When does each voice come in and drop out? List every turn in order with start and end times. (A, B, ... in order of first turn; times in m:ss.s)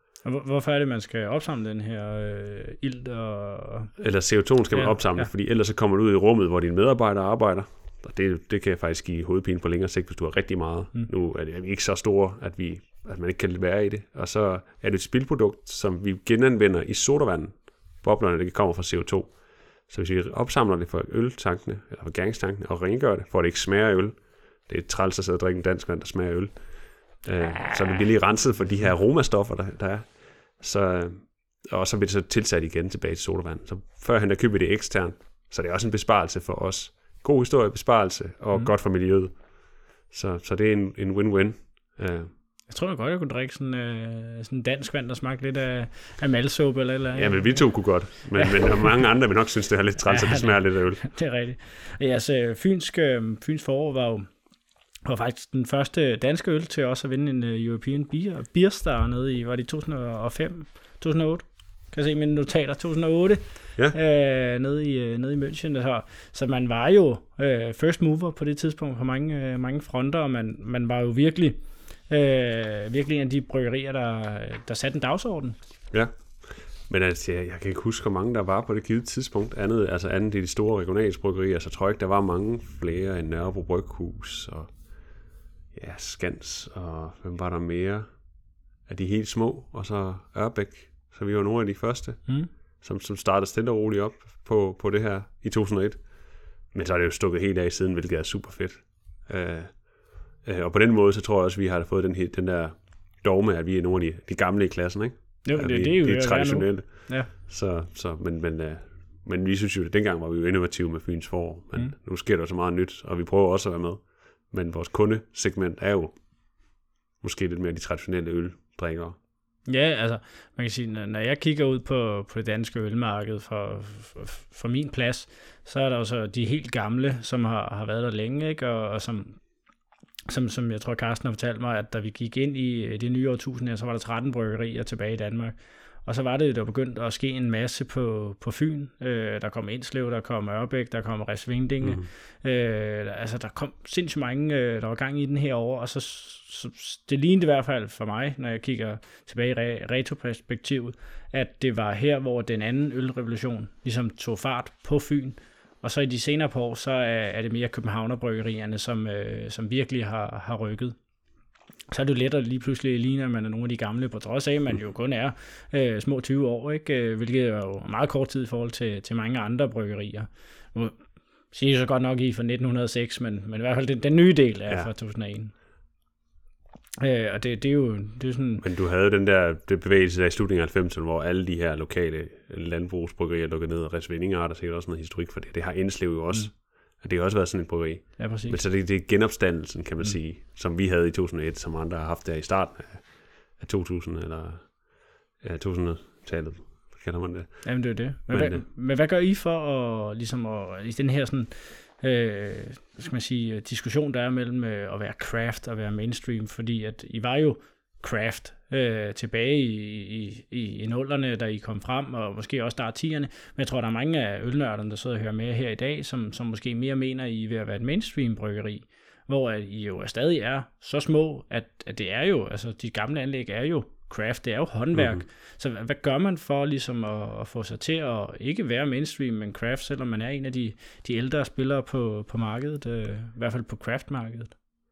0:00.2-0:04.0 A
0:04.0-0:42.3 B
0:04.7-0:05.3 A
0:42.7-0:48.5 A
0:47.1-0:51.1 B
0:50.0-0:54.4 A
0:55.0-1:15.6 A
1:15.9-1:56.6 B
1:45.4-1:47.3 A
1:57.2-1:59.2 B
1:59.7-2:09.4 A
2:10.3-2:41.0 A
2:21.8-2:22.1 B
2:41.9-2:51.0 A
2:51.5-2:55.5 A
2:57.0-2:58.6 A
2:58.6-3:18.6 B
3:08.2-3:08.6 A
3:17.6-3:54.5 A
3:44.9-3:45.2 B